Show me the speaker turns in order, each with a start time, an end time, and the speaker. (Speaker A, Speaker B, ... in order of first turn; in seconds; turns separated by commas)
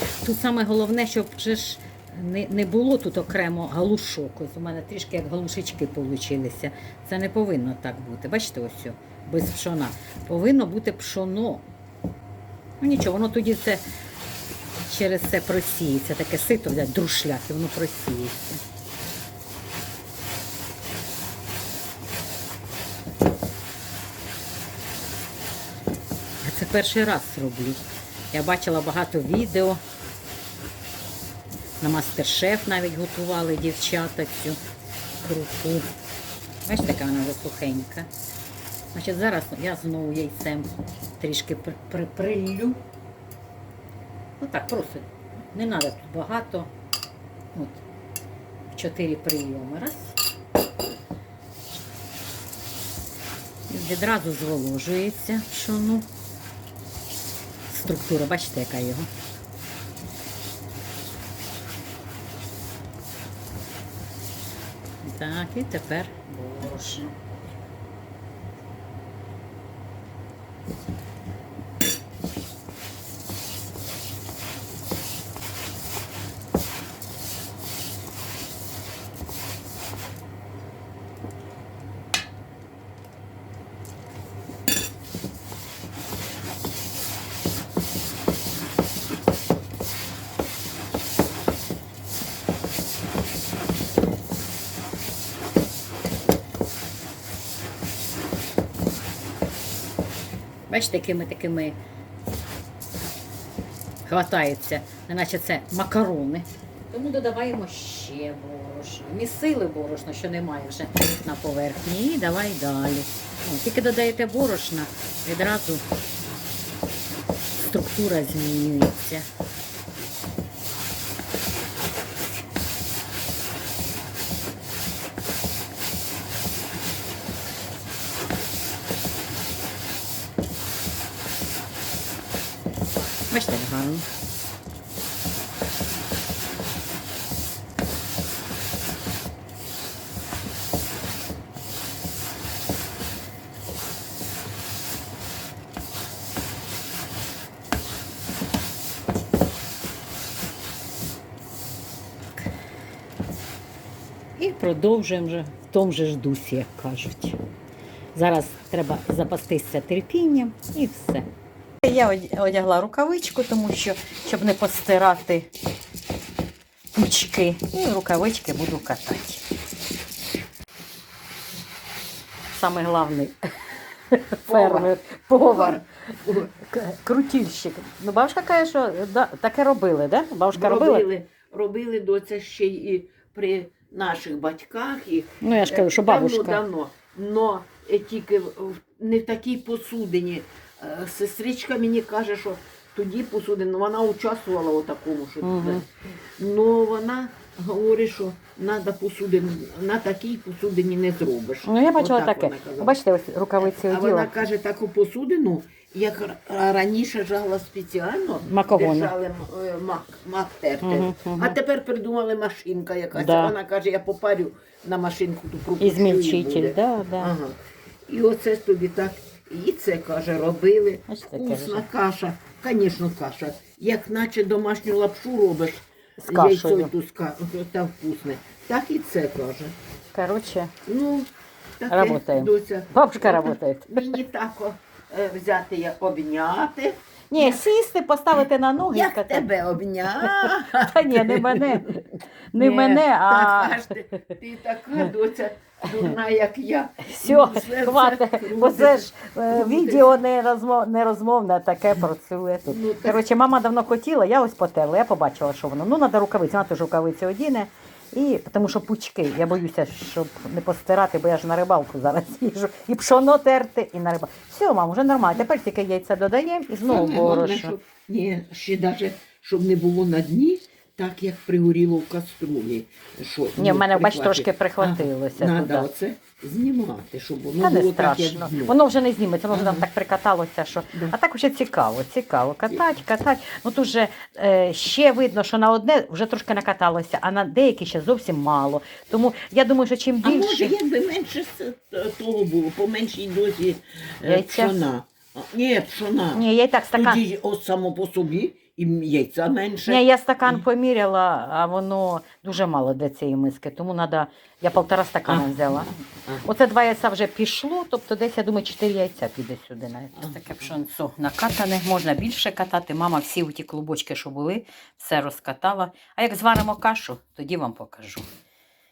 Speaker A: 0.2-11.7, Speaker A: 12.8-13.8, Speaker A: 14.9-18.6, Speaker A: 26.4-29.8, Speaker A: 31.8-34.6, Speaker A: 35.2-35.9, Speaker A: 36.7-38.1, Speaker A: 38.9-42.8, Speaker A: 44.4-46.7, Speaker A: 47.5-47.8, Speaker A: 48.7-50.2, Speaker A: 53.7-56.1, Speaker A: 57.7-59.1, Speaker A: 65.0-67.2, Speaker A: 100.7-101.8, Speaker A: 104.1-115.8, Speaker A: 117.6-119.3, Speaker A: 133.3-134.1, Speaker A: 154.4-157.4, Speaker A: 158.2-161.3, Speaker A: 161.8-165.5, Speaker A: 166.9-169.4, Speaker A: 172.5-173.4, Speaker A: 174.1-181.1, Speaker B: 174.5-174.9, Speaker B: 175.5-176.5, Speaker B: 180.5-203.0, Speaker A: 185.4-186.6, Speaker A: 195.4-195.8, Speaker A: 201.7-204.3, Speaker B: 203.6-229.8, Speaker A: 208.5-209.1, Speaker A: 210.8-211.6, Speaker A: 213.1-213.6, Speaker A: 215.8-217.3, Speaker A: 221.1-221.9, Speaker A: 226.2-226.9, Speaker A: 230.1-230.7, Speaker B: 230.9-237.7, Speaker A: 231.9-234.1, Speaker A: 237.3-239.5, Speaker B: 238.9-242.0, Speaker A: 240.2-243.9, Speaker B: 242.6-250.1, Speaker A: 247.0-267.8, Speaker B: 252.7-253.2, Speaker B: 266.9-278.8, Speaker A: 273.6-275.9, Speaker A: 277.6-290.7, Speaker B: 279.5-279.9, Speaker B: 290.2-300.6, Speaker A: 294.2-294.8, Speaker A: 296.4-297.2, Speaker A: 299.9-318.3, Speaker B: 305.3-306.4, Speaker B: 310.2-310.7